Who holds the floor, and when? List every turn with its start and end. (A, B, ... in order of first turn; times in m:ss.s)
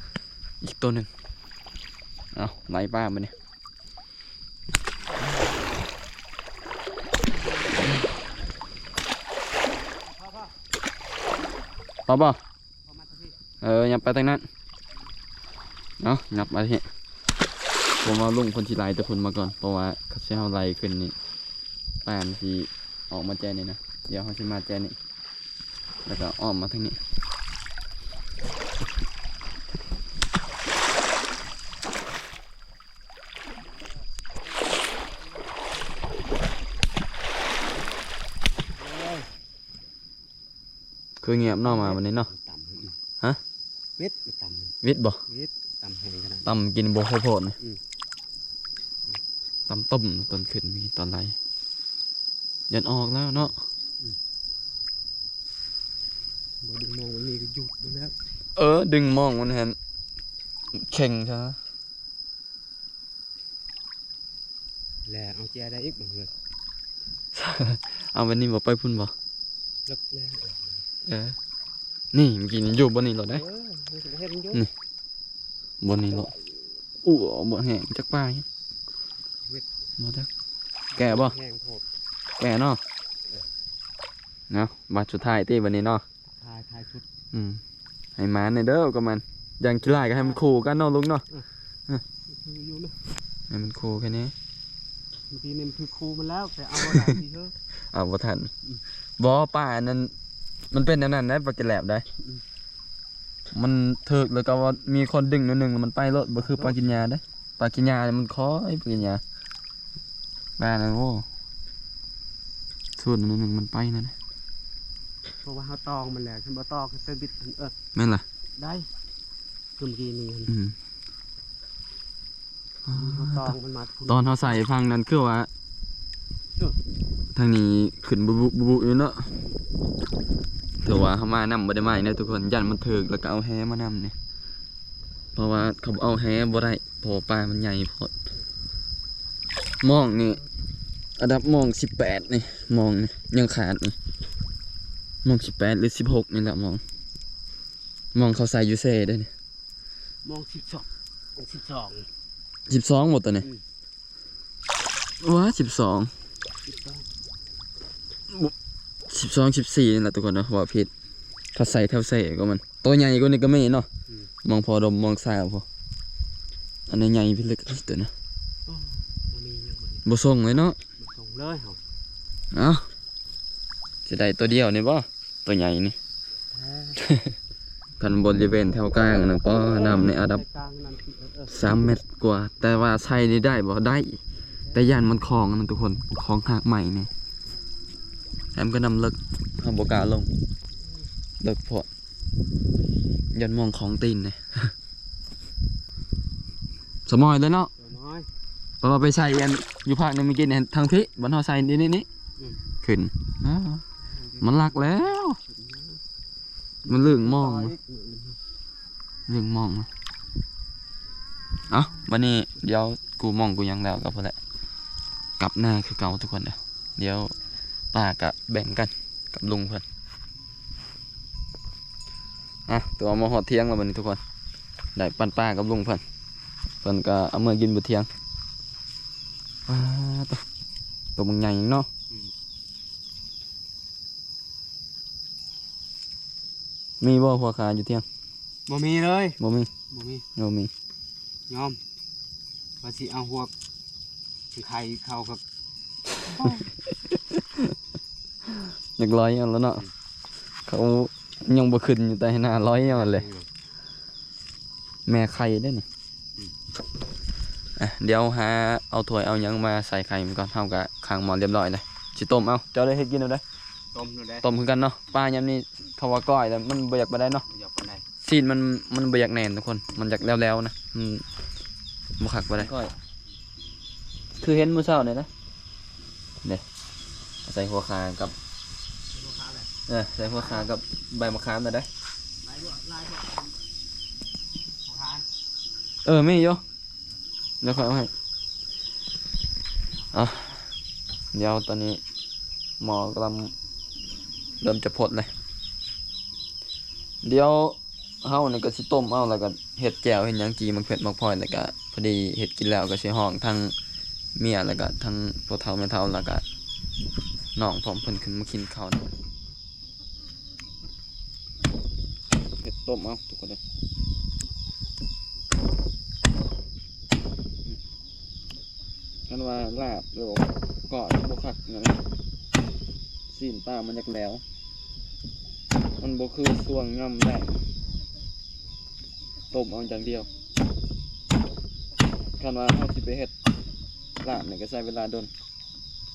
0:00.6-0:01.1 A
0:02.3-0:03.3 A
0:10.1-0:10.5 B
0:12.1-0:12.4 A
0:12.9-0:13.4 B
0:13.6-0:14.5 A
0:16.0-0:16.9 A
0:18.0-0:21.2 A
0:22.0-0:25.0 A
0:26.1-0:27.0 A
0:38.5-0:39.3 B
0:41.2-0:42.3 A
0:41.6-0:43.0 B
0:44.0-0:44.7 B
0:44.8-0:45.2 A
0:45.3-0:46.5 B
0:46.4-0:47.6 A
0:49.7-0:51.4 A
0:52.7-0:53.6 A
0:56.6-0:58.1 B
0:58.6-0:59.8 A
1:00.7-1:01.6 A
1:05.1-1:06.3 B
1:07.3-1:09.1 A
1:09.9-1:10.7 B
1:11.1-1:11.4 A
1:12.1-1:13.4 A
1:13.3-1:14.6 B
1:15.8-1:16.3 A
1:16.1-1:16.4 B
1:17.0-1:18.5 A
1:20.0-1:20.3 A
1:21.0-1:21.8 B
1:21.0-1:21.4 A
1:22.4-1:22.8 A
1:24.5-1:26.0 A
1:26.3-1:27.0 B
1:27.3-1:27.6 A
1:28.2-1:31.2 A
1:29.9-1:30.4 B
1:32.3-1:33.0 B
1:33.5-1:34.3 A
1:35.3-1:37.5 B
1:37.9-1:38.5 A
1:39.2-1:40.1 A
1:40.7-1:42.0 A
1:43.5-1:49.2 A
1:46.4-1:46.8 B
1:50.6-1:51.3 A
1:53.0-1:54.1 A
1:55.4-1:57.7 B
1:58.0-1:58.2 A
1:58.6-1:58.9 B
1:59.8-2:00.5 B
2:00.5-2:00.8 A
2:02.9-2:03.5 A
2:02.9-2:04.6 B
2:04.1-2:05.5 A
2:07.3-2:09.3 A
2:10.8-2:14.2 A
2:15.4-2:18.1 A
2:19.8-2:20.4 A
2:21.2-2:24.0 A
2:25.2-2:26.8 A
2:28.2-2:29.3 A
2:30.2-2:32.1 B
2:32.7-2:33.5 A
2:35.2-2:36.1 A
2:36.7-2:37.1 B
2:39.1-2:40.9 A
2:41.6-2:43.9 A
2:44.4-2:45.6 A
2:46.9-2:48.1 A
2:48.7-2:50.0 B
2:50.0-2:50.8 A
2:51.0-2:51.8 B
2:52.5-2:52.9 A
2:54.1-2:56.0 A
2:56.5-2:57.0 B
2:57.0-2:57.4 A
2:58.0-3:00.4 A
2:59.7-3:01.5 B
3:01.5-3:04.2 A
3:04.7-3:07.1 A
3:08.6-3:10.3 A
3:11.4-3:11.9 A
3:13.3-3:14.7 A
3:17.1-3:17.7 A
3:17.8-3:18.3 B
3:18.8-3:22.1 A
3:22.4-3:22.7 B
3:22.8-3:23.8 A
3:24.1-3:26.0 B
3:24.4-3:25.4 A
3:26.9-3:28.4 B
3:26.9-3:27.8 A
3:29.3-3:29.9 A
3:31.7-3:34.4 A
3:35.4-3:37.4 A
3:37.9-3:39.8 A
3:42.7-3:44.2 A
3:45.0-3:46.0 A
3:46.8-3:48.1 A
3:49.7-3:50.4 A
3:51.2-3:51.9 A
3:57.0-3:58.0 A
3:58.7-3:59.4 B
3:59.4-3:59.7 A
3:59.9-4:00.2 B
4:00.4-4:00.7 A
4:01.5-4:01.8 B
4:02.8-4:03.5 B
4:04.5-4:05.4 B
4:06.2-4:07.7 A
4:08.6-4:09.8 A
4:10.7-4:13.3 A
4:12.8-4:13.5 B
4:15.1-4:15.8 A
4:17.8-4:23.4 A
4:23.9-4:24.5 B
4:24.4-4:27.4 A
4:27.5-4:28.0 B
4:28.2-4:31.2 A
4:32.2-4:32.9 A
4:34.4-4:35.3 A
4:37.4-4:38.4 A
4:39.1-4:39.7 B
4:39.9-4:41.9 A
4:42.4-4:43.6 B
4:44.8-4:45.2 B
4:46.0-4:46.6 A
4:47.6-4:48.1 A
4:50.1-4:50.6 A
4:51.3-4:52.0 A
4:52.8-4:53.5 A
4:54.6-4:55.3 A
4:57.2-5:03.8 A
5:04.4-5:06.4 A
5:07.6-5:09.0 A
5:12.6-5:13.6 A
5:19.3-5:22.0 A
5:23.3-5:24.4 A
5:26.0-5:27.6 A
5:29.5-5:30.3 A
5:32.4-5:33.3 A
5:34.2-5:35.3 A